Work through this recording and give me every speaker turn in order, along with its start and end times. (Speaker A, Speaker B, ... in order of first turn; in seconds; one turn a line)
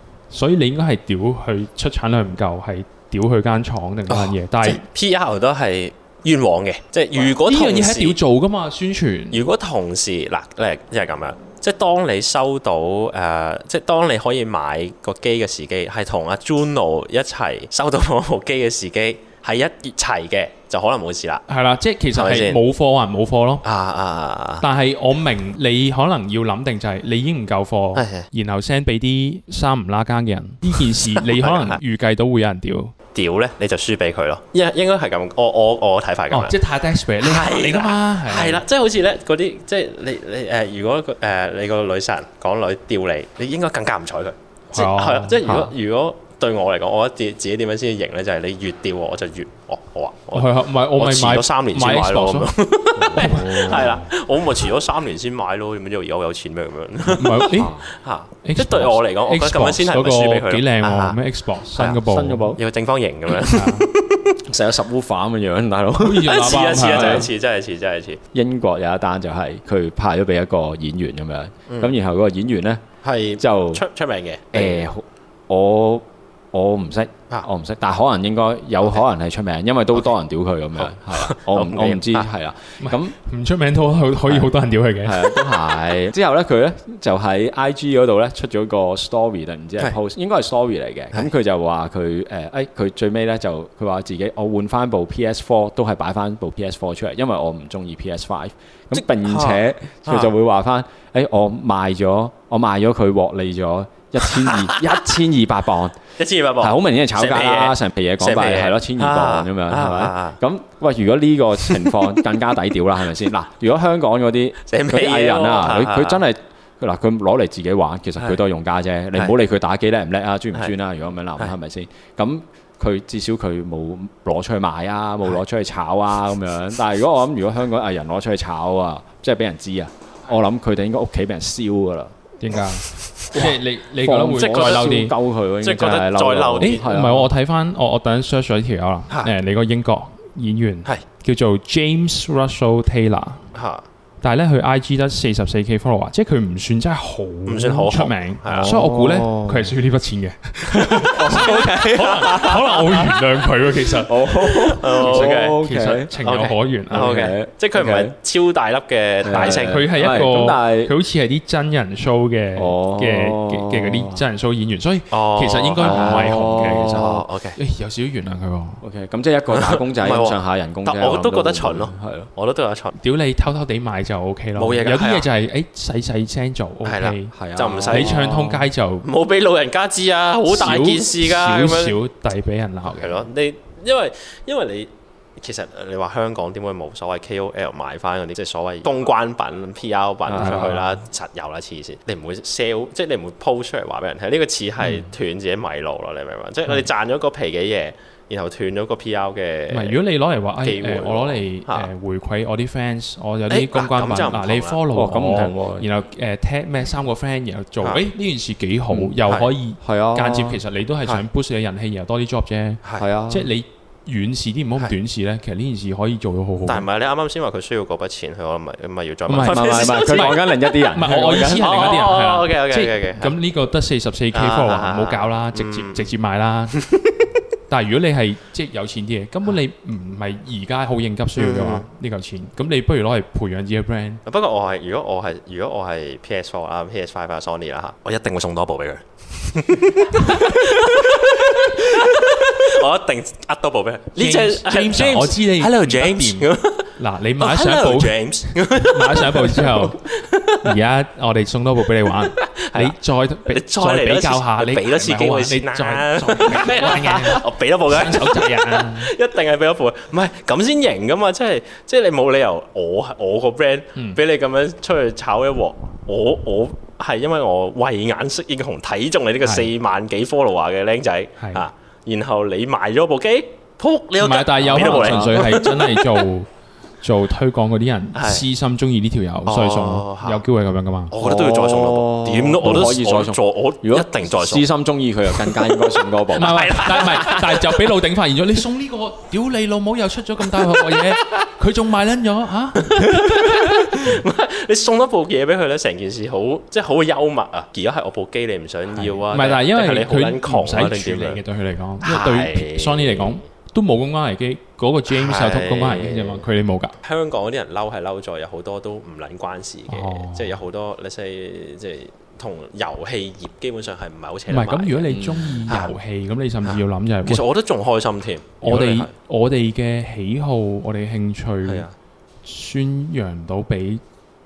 Speaker A: 0.3-4.8
Speaker B: 4.1-8.2
Speaker A: 7.2-9.4
Speaker B: 9.3-21.5
Speaker A: 21.5-23.6
Speaker B: 22.1-22.6
Speaker B: 23.6-24.6
Speaker A: 24.6-32.9
Speaker B: 27.9-28.3
Speaker B: 30.8-31.8
Speaker B: 33.1-36.5
Speaker A: 36.3-38.6
Speaker B: 37.2-61.2
Speaker A: 44.7-45.4
Speaker C: 45.5-45.7
Speaker A: 50.3-52.5
Speaker C: 53.0-54.0
Speaker A: 53.2-54.0
Speaker A: 57.2-57.7
Speaker C: 57.5-57.9
Speaker A: 58.4-62.6
Speaker C: 62.0-62.6
Speaker B: 62.6-64.3
Speaker A: 63.5-63.9
Speaker C: 64.5-67.3
Speaker A: 66.0-67.3
Speaker B: 66.3-68.2
Speaker C: 68.3-72.8
Speaker B: 71.7-72.0
Speaker B: 73.0-74.9
Speaker C: 73.4-73.8
Speaker C: 74.5-83.2
Speaker B: 80.8-82.3
Speaker A: 82.8-85.5
Speaker C: 85.0-106.0
Speaker B: 98.9-100.3
Speaker B: 106.2-110.4
Speaker C: 106.6-132.1
Speaker B: 114.7-116.2
Speaker A: 132.4-135.1
Speaker C: 133.3-137.3
Speaker B: 134.3-135.0
Speaker B: 135.6-136.8
Speaker A: 136.6-143.4
Speaker B: 143.5-143.8
Speaker A: 144.2-157.2
Speaker B: 147.5-148.8
Speaker C: 148.5-149.7
Speaker C: 150.7-152.3
Speaker B: 151.2-153.2
Speaker C: 154.1-156.1
Speaker B: 154.5-155.6
Speaker B: 156.1-159.9
Speaker C: 156.9-158.1
Speaker C: 159.2-160.9
Speaker A: 159.3-168.8
Speaker C: 162.6-164.2
Speaker B: 165.1-167.6
Speaker C: 165.8-167.2
Speaker C: 168.8-172.3
Speaker B: 169.5-172.9
Speaker A: 173.0-177.3
Speaker B: 174.6-175.3
Speaker B: 176.8-178.2
Speaker C: 177.3-178.7
Speaker A: 177.9-179.1
Speaker B: 179.0-182.0
Speaker A: 180.5-183.2
Speaker B: 182.8-200.0
Speaker C: 190.3-190.7
Speaker A: 190.3-191.0
Speaker A: 194.8-195.1
Speaker A: 199.7-216.8
Speaker B: 200.6-201.9
Speaker B: 203.5-204.8
Speaker C: 204.9-205.9
Speaker C: 208.9-209.2
Speaker C: 209.8-210.6
Speaker C: 213.0-213.5
Speaker B: 216.7-223.3
Speaker A: 219.3-226.8
Speaker C: 219.4-222.1
Speaker B: 224.3-226.1
Speaker B: 226.7-227.1
Speaker A: 227.7-234.2
Speaker B: 231.4-231.8
Speaker B: 234.3-250.8
Speaker A: 244.2-250.0
Speaker A: 250.6-259.1
Speaker B: 252.1-252.9
Speaker B: 253.5-276.2
Speaker A: 263.9-264.2
Speaker A: 269.4-269.7
Speaker A: 271.4-271.6
Speaker A: 274.2-276.5
Speaker C: 274.6-275.5
Speaker A: 277.0-281.1
Speaker B: 278.1-278.4
Speaker B: 279.4-280.4
Speaker B: 281.1-284.7
Speaker C: 281.2-287.1
Speaker B: 285.4-287.9
Speaker A: 286.4-293.0
Speaker B: 292.8-301.4
Speaker A: 298.9-306.9
Speaker B: 302.0-303.4
Speaker B: 305.1-306.4
Speaker B: 307.0-315.9
Speaker A: 309.9-310.6
Speaker A: 314.5-317.4
Speaker C: 315.1-315.6
Speaker B: 316.6-319.1
Speaker A: 318.6-321.9
Speaker B: 321.6-321.9
Speaker A: 322.4-324.0